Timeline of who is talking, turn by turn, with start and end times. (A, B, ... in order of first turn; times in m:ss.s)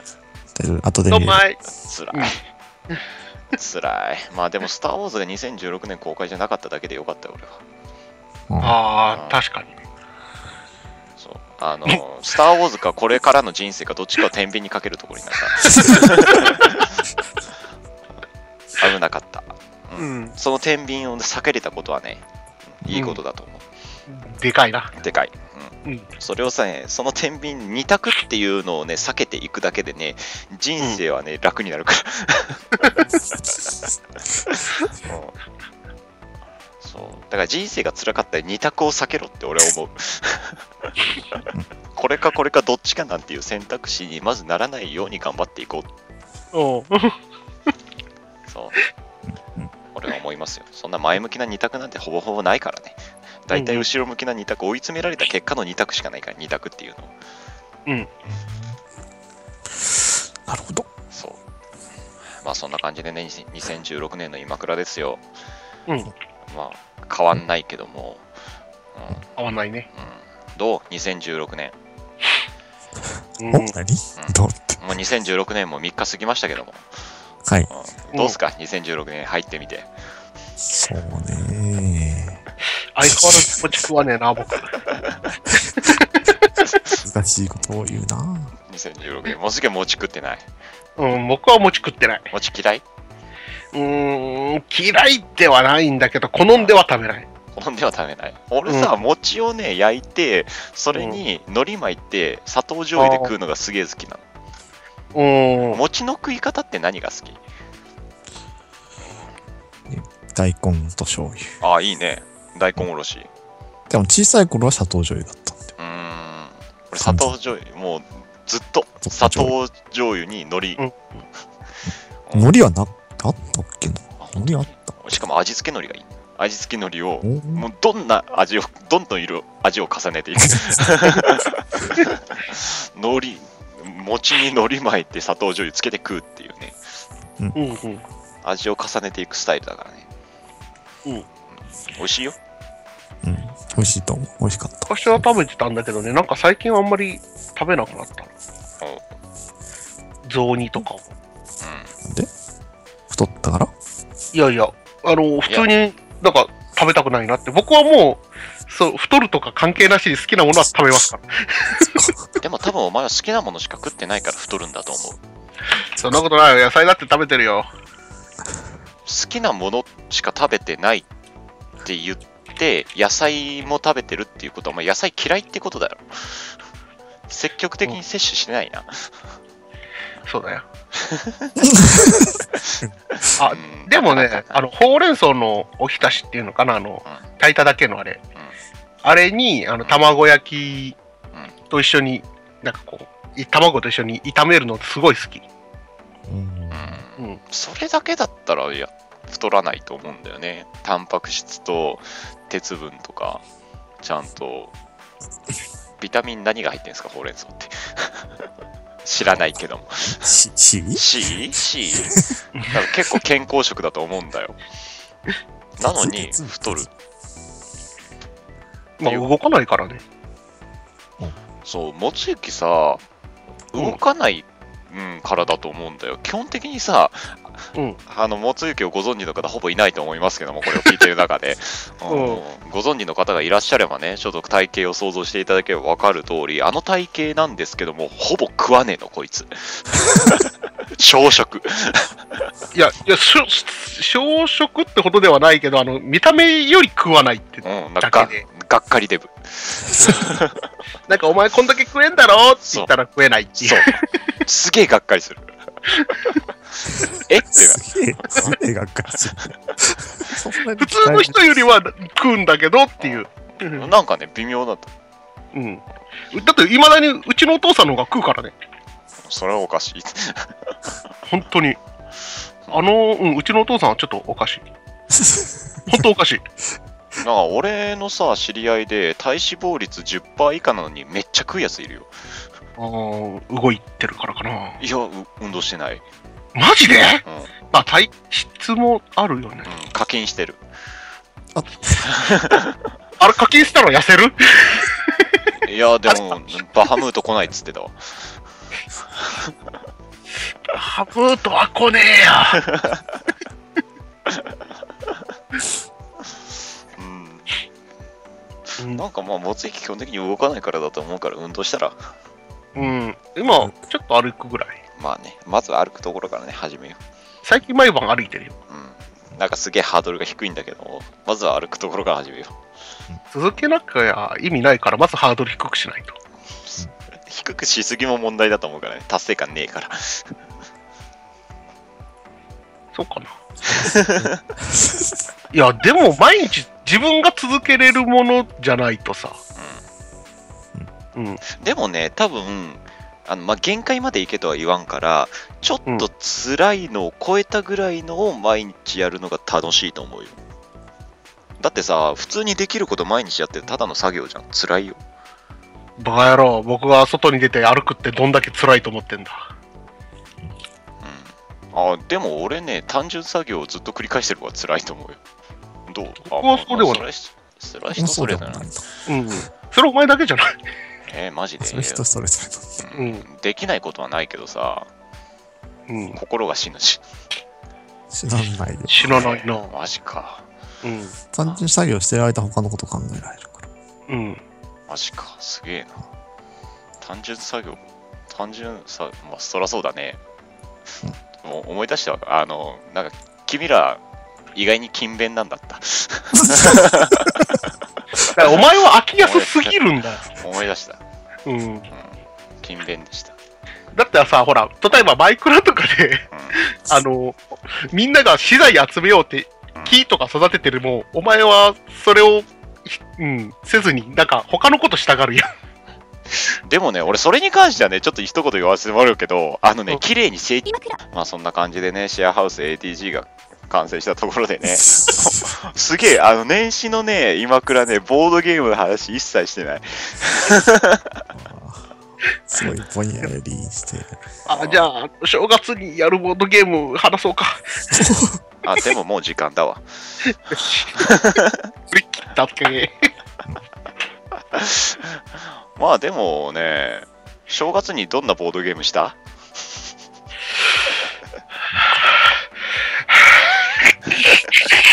0:00.5-0:01.4 A
0:01.1-0:02.4 B
0:01.8-0:02.4 C
0:03.5-0:07.6 C
0:08.5-0:08.8 A
0:08.6-0:09.7 B
0:09.1-0:09.4 C
0:11.2-0:16.9 C
0:15.7-0:16.3 B
0:18.8-0:22.2 C
0:20.0-0:20.3 B
0:22.8-0:23.6 C
0:22.9-0:23.2 B
0:24.1-0:24.9 B
0:25.0-0:32.7 C
0:34.5-0:35.3 C
0:36.8-0:40.6 C
0:41.9-0:45.9 C
0:46.5-0:47.2 B
0:48.5-0:48.8 C
0:49.9-0:57.1 C
0:53.5-0:53.8 B
0:57.8-0:58.1 B
0:58.3-0:58.8 A
0:59.9-1:00.9 A
1:01.1-1:01.4 C
1:02.4-1:05.2 C
1:06.5-1:08.2 C
1:08.9-1:09.3 C
1:09.4-1:09.9 B
1:09.9-1:11.7 C
1:13.4-1:13.7 B
1:13.5-1:14.8 A
1:14.2-1:16.8 C
1:17.4-1:17.7 A
1:17.7-1:19.9 C
1:20.6-1:22.4 A
1:22.9-1:24.7 B
1:23.2-1:23.5 A
1:25.8-1:26.3 B
1:27.0-1:28.5 A
1:28.7-1:30.4 C
1:31.0-1:32.3 B
1:32.3-1:32.8 C
1:33.7-1:37.2 B
1:36.5-1:36.8 C
1:37.5-1:44.2 C
1:38.7-1:38.9 B
1:40.9-1:41.2 B
1:43.0-1:43.3 B
1:45.1-1:45.8 B
1:45.7-1:47.4 C
1:49.9-1:51.6 A
1:51.6-1:53.3 C
1:53.9-1:55.7 A
1:55.8-2:00.8 C
1:57.0-1:57.3 A
1:59.0-1:59.5 A
2:02.3-2:02.5 C
2:02.3-2:05.0 A
2:04.2-2:16.8 C
2:07.2-2:07.6 A
2:10.4-2:10.8 A
2:17.5-2:18.0 B
2:18.4-2:20.0 C
2:21.9-2:22.4 C
2:23.2-2:25.2 A
2:24.9-2:28.3 B
2:30.2-2:31.0 B
2:31.6-2:31.9 C
2:32.0-2:32.3 A
2:33.1-2:33.7 A
2:34.3-2:42.1 B
2:42.4-2:45.2 C
2:46.0-2:47.7 B
2:49.0-2:51.0 C
2:51.8-2:56.6 C
2:57.3-2:59.1 C
3:00.3-3:00.6 B
3:01.0-3:01.6 C
3:01.6-3:02.9 A
3:02.6-3:04.6 C
3:03.4-3:08.2 B
3:09.0-3:11.0 B
3:11.7-3:15.4 B
3:16.3-3:17.0 A
3:16.7-3:23.4 C
3:24.0-3:24.7 C
3:26.0-3:28.3 C
3:29.0-3:30.4 C
3:30.1-3:31.3 A
3:31.0-3:32.1 C
3:32.0-3:32.3 A
3:32.7-3:34.6 C
3:35.8-3:36.9 C
3:35.8-3:36.9 A
3:39.0-3:40.0 B
3:39.0-3:39.3 C
3:41.6-3:43.0 C
3:43.7-4:02.1 C
3:52.1-3:52.4 B
4:02.7-4:08.4 B
4:07.6-4:10.6 C
4:11.1-4:14.0 B
4:13.6-4:15.5 C
4:16.1-4:16.4 C
4:17.1-4:18.5 C
4:17.7-4:21.4 A
4:20.8-4:23.8 B
4:23.0-4:24.9 C
4:25.5-4:28.5 B
4:29.2-4:30.7 C
4:31.3-4:31.8 B
4:32.7-4:34.6 B
4:35.1-4:36.0 A
4:35.9-4:36.4 B
4:37.2-4:42.1 C
4:42.8-4:44.8 B
4:44.8-4:46.0 C
4:46.5-4:49.7 B
4:47.2-4:47.5 C
4:49.6-4:50.6 C
4:51.5-4:51.9 A
4:52.0-4:52.7 C
4:53.2-4:55.2 B
4:55.6-4:58.0 C
5:00.7-5:02.6 B
5:02.6-5:03.0 C
5:07.0-5:07.5 C
5:08.9-5:12.0 C
5:12.8-5:14.8 B
5:15.0-5:17.0 C
5:17.4-5:18.5 B
5:18.7-5:22.6 C
5:23.3-5:26.2 B
5:26.6-5:30.3 C
5:32.9-5:33.9 B
5:33.7-5:34.9 A
5:33.8-5:34.4 C
5:35.5-5:39.4 B
5:41.2-5:41.4 B
5:41.6-5:50.4 C
5:51.6-5:55.0 C
5:56.0-5:59.5 B
6:01.0-6:05.2 C
6:05.9-6:08.7 C
6:06.3-6:07.0 B
6:07.9-6:08.8 A
6:09.0-6:10.6 B
6:11.1-6:12.0 C
6:11.6-6:12.8 A
6:12.8-6:14.9 C
6:12.9-6:13.2 B
6:15.9-6:16.2 B
6:16.1-6:17.0 C
6:18.1-6:19.2 A
6:18.9-6:19.7 B
6:19.0-6:20.4 C
6:20.8-6:21.1 B
6:21.3-6:23.7 A
6:24.1-6:24.4 B
6:24.9-6:26.0 C
6:27.0-6:30.2 C
6:31.4-6:34.0 C
6:34.5-6:37.4 C
6:38.2-6:40.3 B
6:39.2-6:39.8 C
6:40.3-6:41.0 C
6:41.4-6:41.9 B
6:41.9-6:43.3 C
6:43.9-6:55.5 B
6:56.5-7:11.2 C
7:04.9-7:05.3 A
7:11.3-7:11.9 A
7:12.5-7:14.2 A
7:14.5-7:18.1 B
7:14.5-7:14.9 C
7:17.9-7:18.4 A
7:18.6-7:20.2 C
7:20.2-7:21.1 B
7:21.0-7:21.6 C
7:21.9-7:23.1 B
7:24.5-7:25.2 C
7:25.8-7:29.2 C